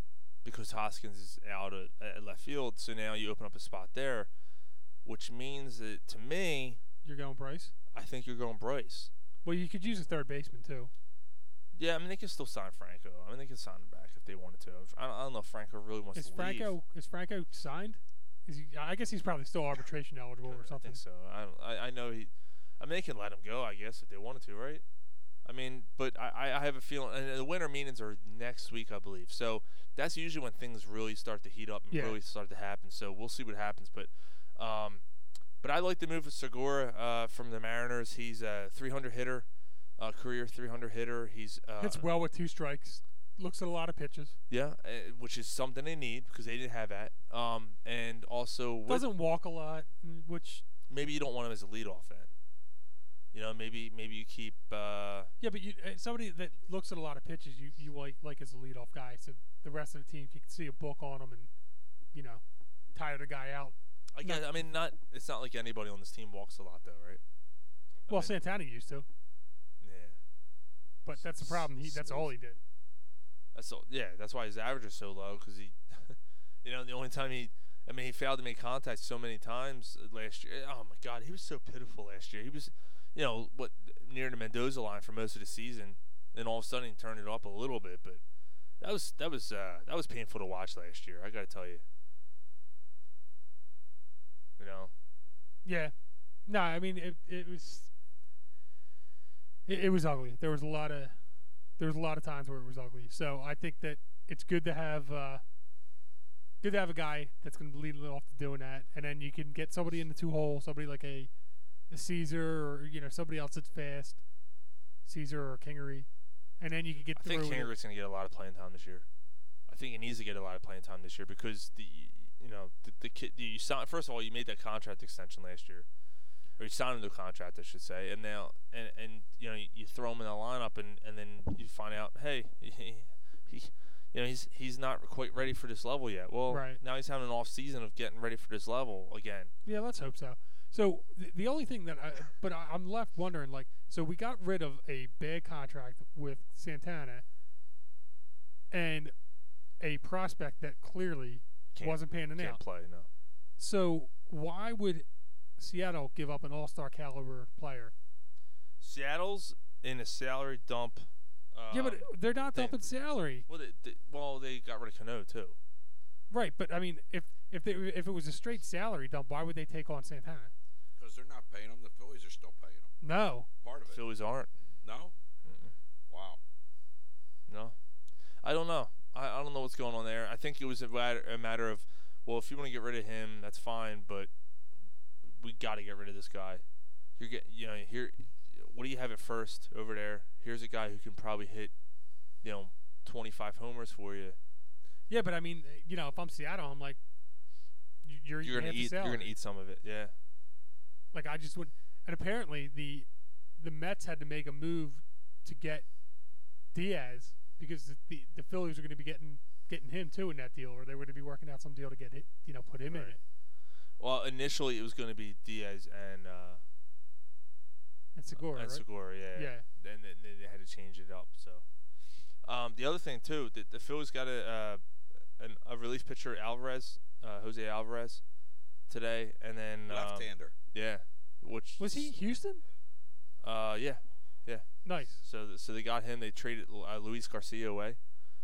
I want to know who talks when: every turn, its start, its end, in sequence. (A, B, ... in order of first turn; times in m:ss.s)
0:00.4-0:04.3 A
0:05.0-0:06.8 A
0:07.0-0:07.7 B
0:07.9-0:09.1 A
0:09.4-0:10.9 B
0:11.7-0:16.7 A
0:16.2-0:21.0 B
0:20.4-0:24.8 A
0:25.4-0:35.0 A
0:31.9-0:32.2 B
0:35.6-0:39.5 A
0:40.0-0:42.1 A
0:41.8-0:44.4 B
0:44.5-0:49.1 A
0:48.9-0:50.6 B
0:50.9-0:52.3 A
0:53.3-0:55.3 A
0:55.4-1:01.5 B
1:02.1-1:02.4 B
1:02.9-1:04.8 B
1:04.1-1:07.2 A
1:08.1-1:08.4 A
1:08.1-1:09.1 B
1:09.8-1:10.2 A
1:11.0-1:12.6 B
1:11.1-1:12.3 A
1:13.6-1:28.2 A
1:28.8-1:31.8 A
1:34.6-1:34.9 A
1:35.6-1:35.9 B
1:36.5-1:37.9 B
1:39.7-1:41.1 B
1:41.8-1:45.4 B
1:46.6-1:51.3 B
1:51.9-1:54.2 B
1:55.1-1:56.1 B
1:56.6-1:57.7 B
1:57.2-1:59.1 A
1:59.7-2:05.9 A
2:06.6-2:19.5 A
2:16.5-2:16.8 B
2:19.6-2:27.2 B
2:28.7-2:29.1 B
2:29.8-2:32.6 B
2:31.8-2:33.1 A
2:33.6-2:35.0 B
2:35.6-2:37.9 B
2:38.8-2:42.8 A
2:41.7-2:43.5 B
2:43.5-2:45.6 A
2:46.3-2:50.5 B
2:51.0-2:52.9 C
2:53.0-2:53.5 B
2:53.6-2:54.0 C
2:53.9-2:54.5 A
2:54.8-2:55.1 C
2:55.4-2:55.7 A
2:56.1-2:56.4 C
2:57.5-2:57.8 A
2:58.4-3:04.3 A
3:05.4-3:06.6 A
3:07.2-3:11.7 A
3:12.4-3:14.4 A
3:15.1-3:17.0 B
3:18.0-3:19.3 B
3:18.4-3:20.1 A
3:21.1-3:25.9 B
3:26.7-3:33.2 B
3:32.9-3:33.2 A
3:34.0-3:36.6 A
3:38.2-3:39.7 B
3:38.4-3:41.6 A
3:42.4-3:44.8 A
3:45.4-3:48.2 A
3:48.9-3:52.1 A
3:49.9-3:50.5 C
3:51.8-3:52.6 B
3:53.4-3:54.7 A
3:54.8-3:55.2 B
3:55.2-3:58.0 A